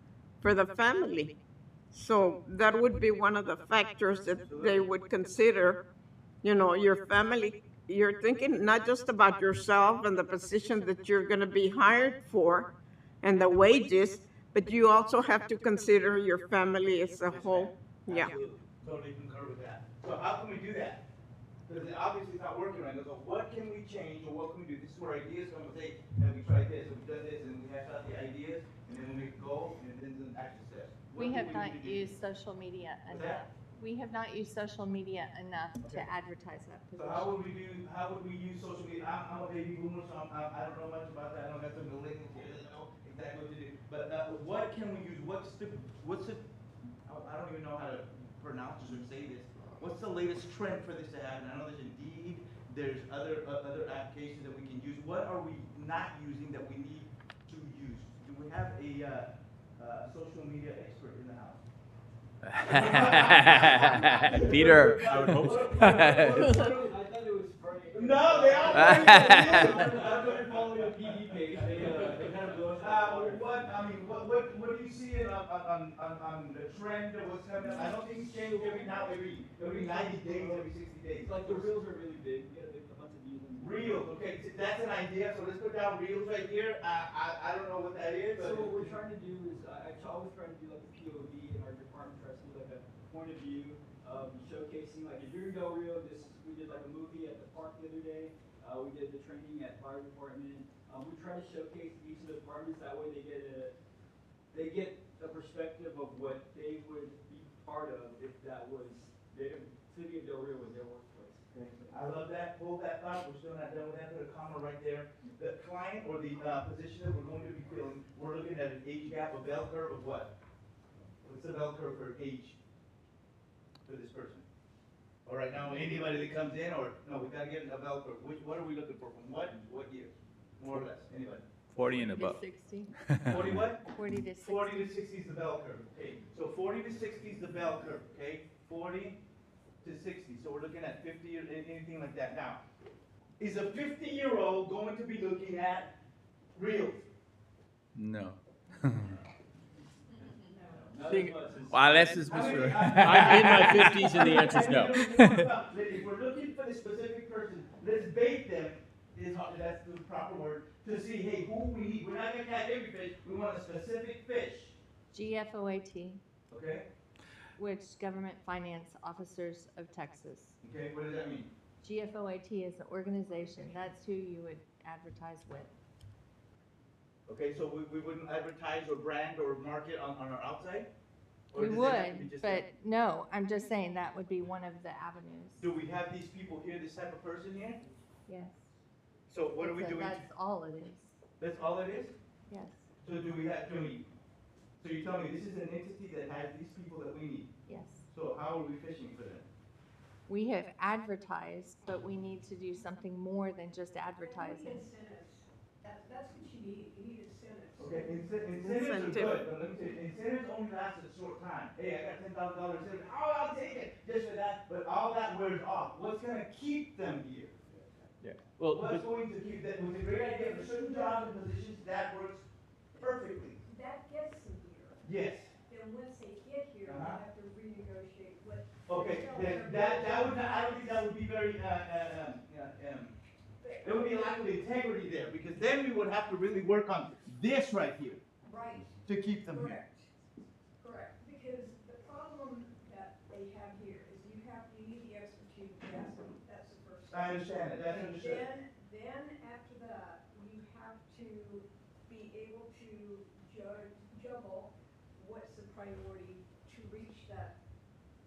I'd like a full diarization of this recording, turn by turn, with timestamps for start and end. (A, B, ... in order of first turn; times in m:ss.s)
0:00.4-0:01.4 A
0:01.9-0:05.8 A
0:04.4-0:04.9 B
0:06.4-0:12.7 A
0:13.2-0:18.3 A
0:17.3-0:21.0 B
0:21.7-0:32.2 B
0:31.2-0:37.3 C
0:33.1-0:33.4 B
0:37.0-0:46.4 B
0:47.1-1:01.6 B
1:02.5-1:06.5 D
1:02.6-1:07.0 B
1:05.5-1:13.8 E
1:07.9-1:21.7 B
1:08.7-1:09.5 D
1:17.8-1:24.1 E
1:23.6-1:29.0 B
1:28.3-1:43.7 E
1:44.5-1:51.9 E
1:51.5-2:00.3 B
2:01.2-2:02.6 B
2:03.8-2:04.4 B
2:05.3-2:11.4 B
2:11.7-2:12.4 D
2:12.1-2:13.0 C
2:13.0-2:13.6 D
2:13.3-2:13.8 B
2:13.8-2:14.9 C
2:14.4-2:19.2 B
2:19.8-2:22.6 B
2:23.4-2:25.9 B
2:26.6-2:27.0 B
2:28.0-2:29.2 D
2:30.6-2:32.8 E
2:31.1-2:35.4 D
2:32.2-2:44.8 B
2:33.0-2:34.8 F
2:33.8-2:34.4 E
2:45.1-2:46.2 C
2:46.5-2:46.9 B
2:47.6-2:50.6 C
2:50.6-2:51.5 B
2:51.8-2:55.7 C
2:53.3-2:53.7 G
2:57.3-3:00.9 B
3:01.5-3:02.6 B
3:01.6-3:05.6 C
3:05.6-3:07.8 B
3:08.3-3:08.7 C
3:09.3-3:10.2 B
3:09.5-3:11.2 C
3:11.4-3:12.2 B
3:12.5-3:12.9 C
3:13.0-3:14.0 B
3:14.8-3:17.5 B
3:17.7-3:18.0 C
3:18.1-3:19.5 B
3:20.3-3:24.9 C
3:24.2-3:28.4 G
3:27.8-3:37.6 B
3:28.6-3:29.4 A
3:38.5-3:39.0 F
3:38.7-3:43.6 B
3:40.4-3:41.3 G
3:43.6-3:45.0 G
3:45.0-3:45.5 B
3:45.6-3:51.1 G
3:46.8-3:47.2 B
3:48.9-3:53.2 B
3:53.6-3:54.7 G
3:53.8-3:58.2 B
3:58.4-4:00.1 G
3:59.0-3:59.8 B
4:00.8-4:17.6 G
4:07.1-4:08.5 B